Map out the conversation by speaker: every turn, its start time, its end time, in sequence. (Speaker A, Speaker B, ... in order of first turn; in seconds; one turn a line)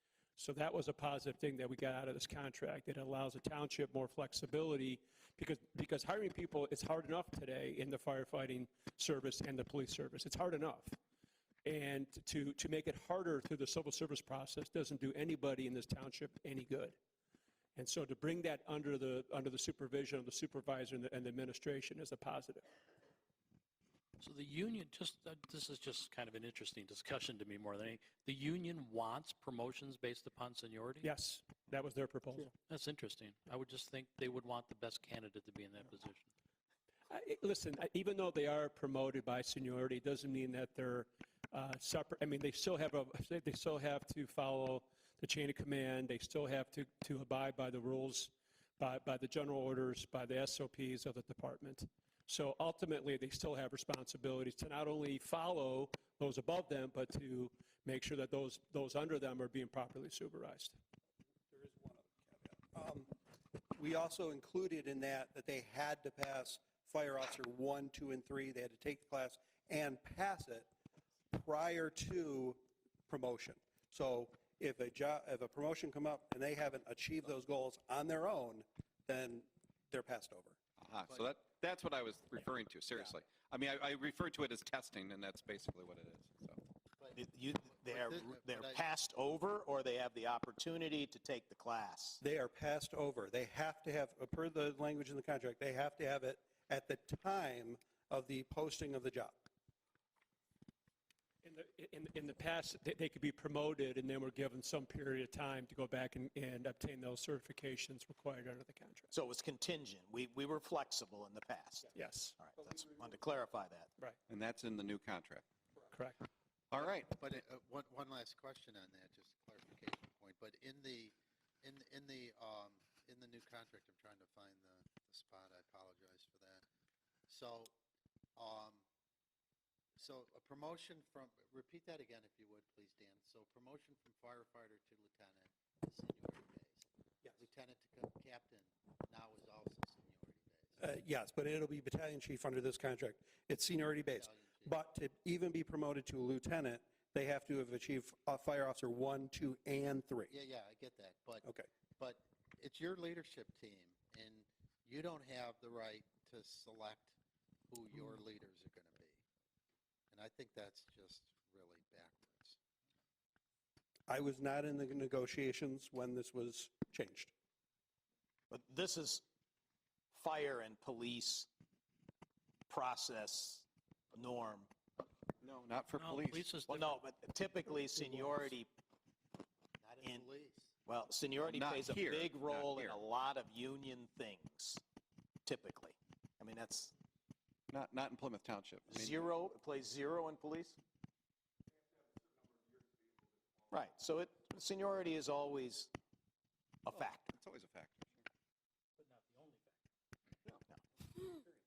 Speaker A: 0.4-10.9
Speaker A: 11.6-17.0
Speaker A: 17.8-22.6
Speaker B: 24.2-31.1
Speaker A: 31.0-32.5
Speaker B: 32.7-36.3
Speaker A: 37.1-60.8
Speaker C: 61.5-63.2
Speaker C: 63.7-70.7
Speaker C: 71.3-80.6
Speaker D: 80.8-86.6
Speaker E: 87.0-88.8
Speaker F: 87.1-92.2
Speaker C: 92.2-99.4
Speaker A: 101.4-109.1
Speaker F: 109.1-113.9
Speaker A: 111.9-112.3
Speaker D: 114.3-115.5
Speaker A: 115.9-116.2
Speaker D: 116.7-117.2
Speaker E: 116.8-126.6
Speaker E: 127.3-127.7
Speaker E: 128.3-128.8
Speaker E: 129.9-140.8
Speaker C: 140.8-150.3
Speaker E: 144.1-144.8
Speaker E: 150.3-151.4
Speaker C: 151.4-151.7
Speaker E: 152.0-157.2
Speaker E: 157.7-159.2
Speaker E: 160.1-162.6
Speaker C: 164.1-167.3
Speaker F: 168.5-169.2
Speaker F: 170.1-171.5
Speaker F: 172.7-174.7
Speaker D: 175.4-176.6
Speaker B: 175.9-177.0
Speaker F: 176.6-178.7
Speaker E: 179.8-180.7
Speaker F: 180.0-180.3
Speaker F: 180.8-184.8
Speaker D: 181.4-183.0
Speaker F: 185.4-186.9
Speaker D: 187.7-189.3
Speaker F: 188.9-190.8
Speaker F: 193.7-195.9
Speaker F: 196.8-197.3
Speaker D: 196.9-198.1